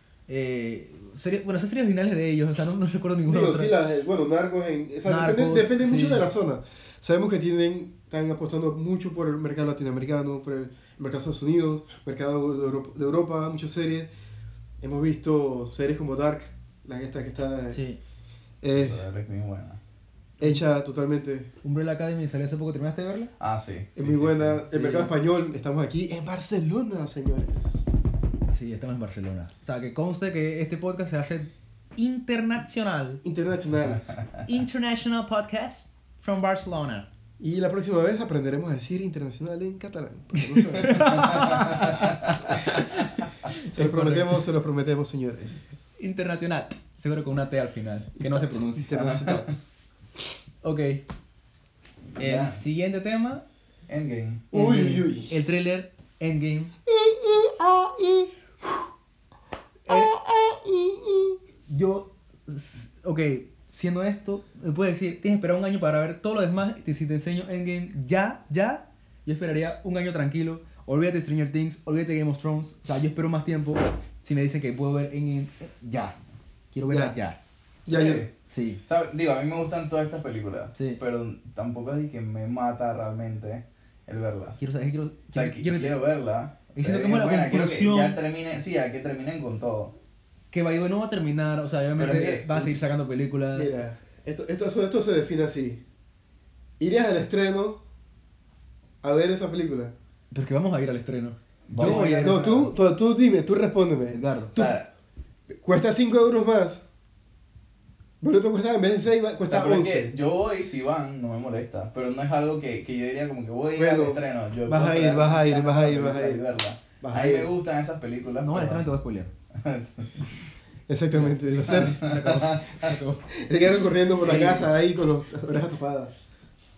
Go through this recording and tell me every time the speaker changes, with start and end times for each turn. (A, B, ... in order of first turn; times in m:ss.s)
0:00.3-0:03.7 A
0:03.2-0:14.1 B
0:05.0-0:06.2 A
0:14.8-0:17.8 B
0:17.7-0:18.0 A
0:18.6-0:19.0 B
0:18.7-0:19.8 C
0:20.4-0:21.5 B
0:21.6-0:23.3 A
0:23.4-0:24.6 C
0:24.0-0:28.0 B
0:24.7-0:25.1 A
0:28.5-0:33.2 A
0:33.2-0:34.0 B
0:34.1-0:34.4 C
0:34.4-0:37.1 A
0:37.4-0:41.4 B
0:40.4-0:44.4 A
0:40.9-0:42.7 C
0:43.6-0:45.6 B
0:46.0-0:49.1 A
0:48.2-0:49.5 B
0:48.9-0:49.5 C
0:50.6-0:51.0 A
0:52.1-0:52.6 C
0:52.2-0:53.4 A
0:53.9-0:54.5 C
0:54.5-0:55.3 B
0:54.5-0:56.7 A
0:56.9-0:58.3 B
0:59.9-1:00.1 A
0:59.9-1:01.4 B
1:01.7-1:16.2 A
1:16.7-1:17.4 A
1:16.9-1:17.2 B
1:17.9-1:18.2 B
1:17.9-1:18.3 C
1:18.5-1:18.8 A
1:18.8-1:24.6 C
1:20.7-1:21.0 A
1:24.6-1:26.0 A
1:25.3-1:29.9 C
1:26.8-1:28.2 A
1:30.5-1:33.7 A
1:32.0-1:32.7 C
1:33.5-1:35.8 B
1:36.8-1:37.8 B
1:39.0-1:39.9 B
1:40.3-1:42.6 A
1:41.7-1:42.7 C
1:41.8-1:44.7 B
1:44.1-1:44.5 A
1:44.5-1:44.9 C
1:45.6-1:46.8 B
1:48.2-1:50.1 B
1:49.5-1:58.9 C
1:53.7-1:56.4 B
1:57.0-1:57.5 B
1:58.4-1:59.3 A
1:59.5-2:00.4 C
2:00.9-2:02.0 B
2:01.1-2:03.3 A
2:01.6-2:02.9 C
2:03.3-2:06.1 B
2:04.2-2:04.7 A